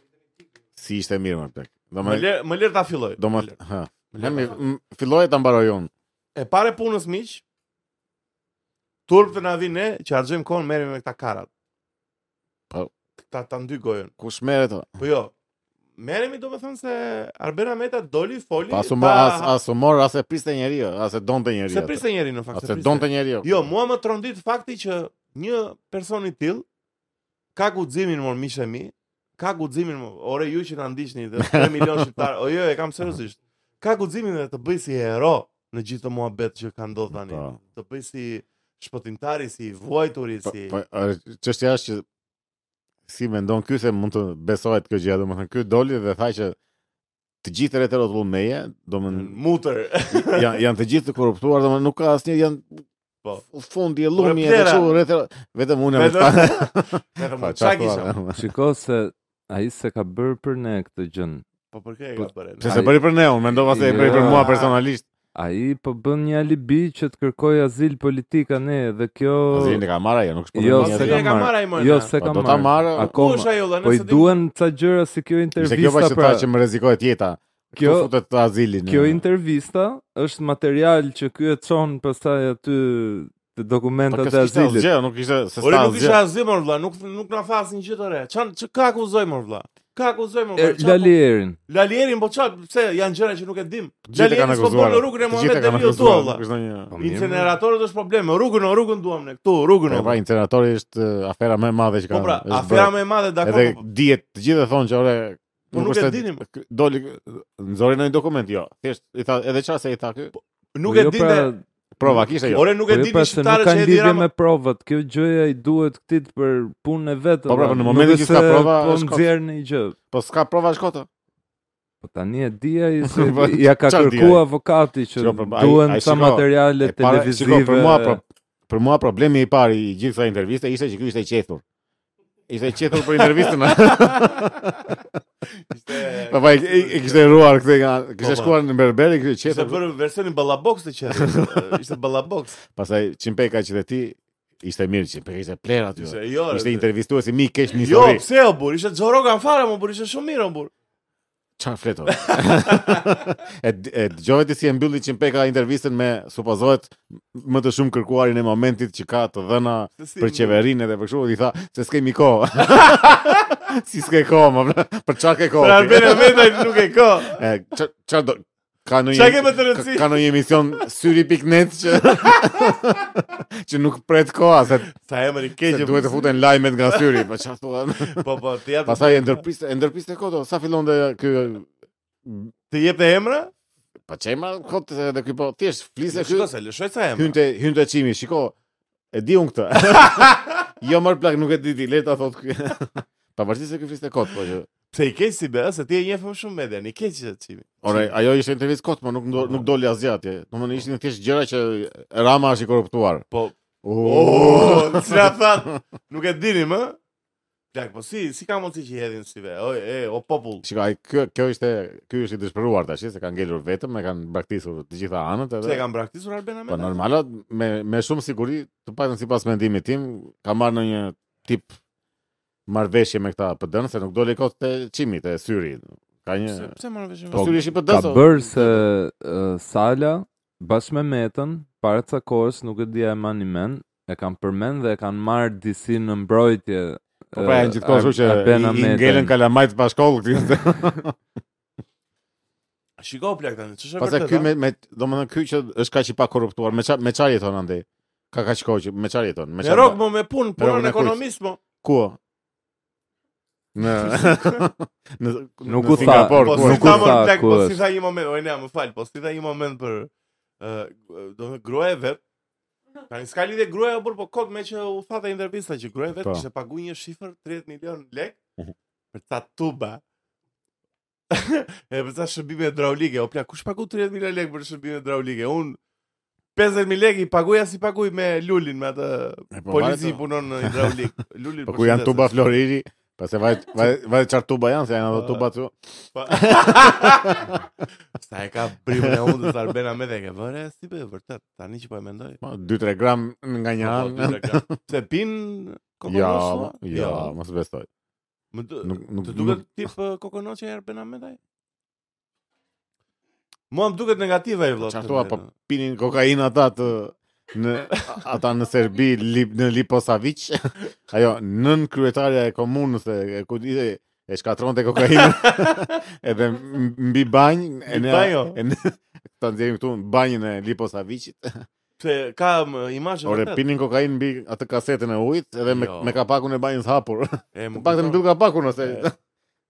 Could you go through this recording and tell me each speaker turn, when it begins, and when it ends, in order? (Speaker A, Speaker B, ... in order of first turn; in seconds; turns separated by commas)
Speaker A: 0.8-2.3, Speaker B: 2.0-3.5, Speaker A: 3.2-5.9, Speaker B: 4.1-4.6, Speaker B: 6.3-7.4, Speaker B: 9.1-11.5, Speaker B: 13.3-14.1, Speaker A: 14.2-14.9, Speaker B: 15.0-15.3, Speaker B: 16.0-19.5, Speaker A: 18.7-22.0, Speaker B: 21.7-26.6, Speaker A: 22.5-23.6, Speaker B: 27.5-40.8, Speaker A: 31.4-32.1, Speaker A: 37.3-37.5, Speaker A: 40.5-42.0, Speaker A: 43.1-46.5, Speaker A: 47.4-49.4, Speaker B: 49.1-50.6, Speaker A: 50.1-52.8, Speaker A: 53.5-58.5, Speaker B: 54.1-55.0, Speaker B: 55.9-58.1, Speaker C: 58.3-61.4, Speaker B: 61.7-63.0, Speaker A: 62.6-65.0, Speaker C: 62.6-63.0, Speaker B: 63.7-64.8, Speaker C: 63.7-64.6, Speaker C: 65.3-69.8, Speaker A: 69.5-71.3, Speaker C: 70.5-76.5, Speaker B: 70.7-72.1, Speaker A: 72.2-73.1, Speaker B: 72.9-74.3, Speaker A: 75.6-79.2, Speaker C: 77.8-78.1, Speaker C: 78.8-84.9, Speaker A: 84.1-86.2, Speaker B: 85.6-91.1, Speaker C: 90.6-91.6, Speaker B: 91.7-96.4, Speaker A: 94.0-96.9, Speaker C: 96.9-97.5, Speaker B: 97.0-100.2, Speaker A: 99.9-110.3, Speaker B: 102.1-103.8, Speaker B: 105.7-106.4, Speaker B: 110.3-111.5, Speaker C: 110.8-120.0, Speaker A: 112.0-112.7, Speaker B: 112.5-114.2, Speaker A: 117.5-119.3, Speaker A: 120.1-121.1, Speaker C: 122.0-128.2, Speaker A: 123.0-124.4, Speaker A: 125.2-131.6, Speaker A: 132.5-135.0, Speaker B: 133.0-134.9, Speaker B: 135.7-137.5, Speaker A: 136.2-139.8, Speaker B: 138.2-138.5, Speaker B: 139.4-142.6, Speaker A: 141.1-141.6, Speaker A: 142.7-148.2, Speaker B: 146.0-146.9, Speaker B: 147.7-150.7, Speaker A: 151.6-174.9, Speaker B: 152.1-153.1, Speaker B: 160.0-160.6, Speaker B: 162.7-163.3, Speaker B: 165.6-167.4, Speaker B: 169.1-170.3, Speaker B: 172.0-172.7, Speaker B: 174.9-177.3, Speaker A: 175.7-178.2, Speaker B: 178.1-179.4, Speaker A: 178.8-181.7, Speaker A: 182.2-182.5, Speaker B: 182.7-183.5, Speaker A: 184.1-186.5, Speaker B: 186.1-187.4, Speaker A: 187.2-188.5, Speaker A: 189.1-194.7, Speaker B: 189.9-190.6, Speaker B: 194.9-198.1, Speaker A: 197.8-203.2, Speaker B: 199.4-199.7, Speaker B: 203.3-207.0, Speaker A: 203.8-205.3, Speaker B: 207.7-210.6, Speaker A: 210.6-215.8, Speaker B: 215.6-217.0, Speaker A: 216.7-221.8, Speaker A: 222.7-226.7, Speaker B: 226.5-227.7, Speaker A: 227.3-228.8, Speaker C: 227.3-239.3, Speaker A: 237.3-241.2, Speaker B: 243.0-244.5, Speaker A: 244.0-250.0, Speaker B: 249.6-251.6, Speaker A: 250.6-251.2, Speaker A: 251.8-252.2, Speaker A: 253.7-257.2, Speaker B: 253.8-254.6, Speaker C: 255.7-257.8, Speaker B: 255.9-262.2, Speaker B: 263.1-268.4, Speaker B: 269.1-270.0, Speaker B: 271.3-275.8, Speaker B: 276.6-282.4, Speaker A: 279.5-281.0, Speaker A: 281.6-287.6, Speaker B: 285.1-285.4, Speaker B: 286.1-287.6, Speaker B: 288.2-292.4, Speaker A: 288.9-289.5, Speaker A: 292.4-294.7, Speaker B: 293.8-297.3, Speaker A: 296.1-297.9, Speaker B: 298.5-301.4, Speaker A: 298.8-299.6, Speaker B: 303.7-305.5, Speaker A: 304.8-321.6, Speaker B: 315.1-316.0, Speaker B: 317.9-318.6, Speaker B: 322.0-323.6, Speaker A: 323.2-329.1, Speaker B: 325.7-326.2, Speaker B: 327.5-328.2